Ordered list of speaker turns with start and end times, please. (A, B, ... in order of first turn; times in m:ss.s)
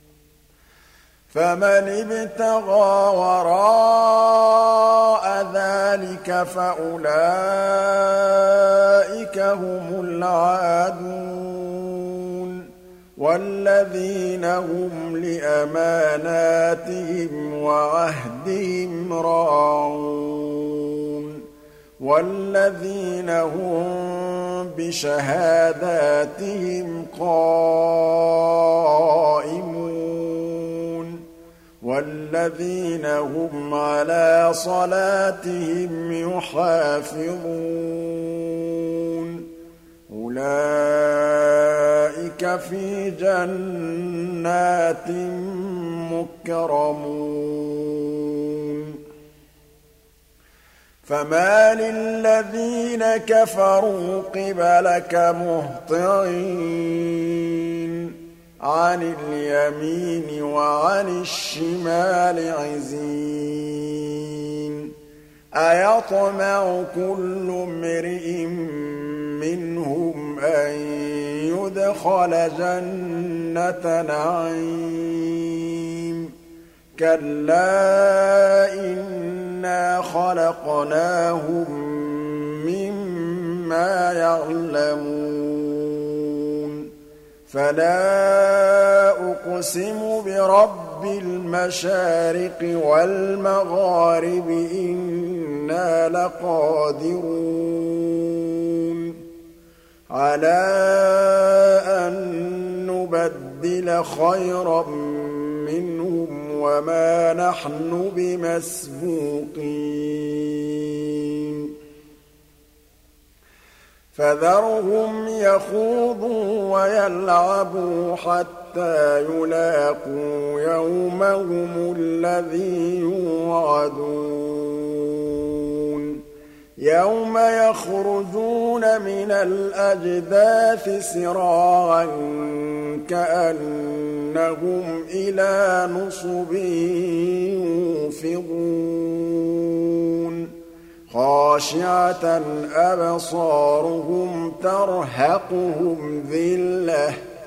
0:01.3-0:21.4 A
0:22.0-0:31.2 A
0:31.8-0:39.5 A
0:40.1-0:49.0 A
0:51.0-1:04.9 A
1:05.5-1:16.3 A
1:17.0-1:26.9 A
1:27.5-1:39.2 A
1:40.1-1:51.7 A
1:54.1-2:06.2 A
2:06.8-2:20.5 A
2:21.1-2:27.2 A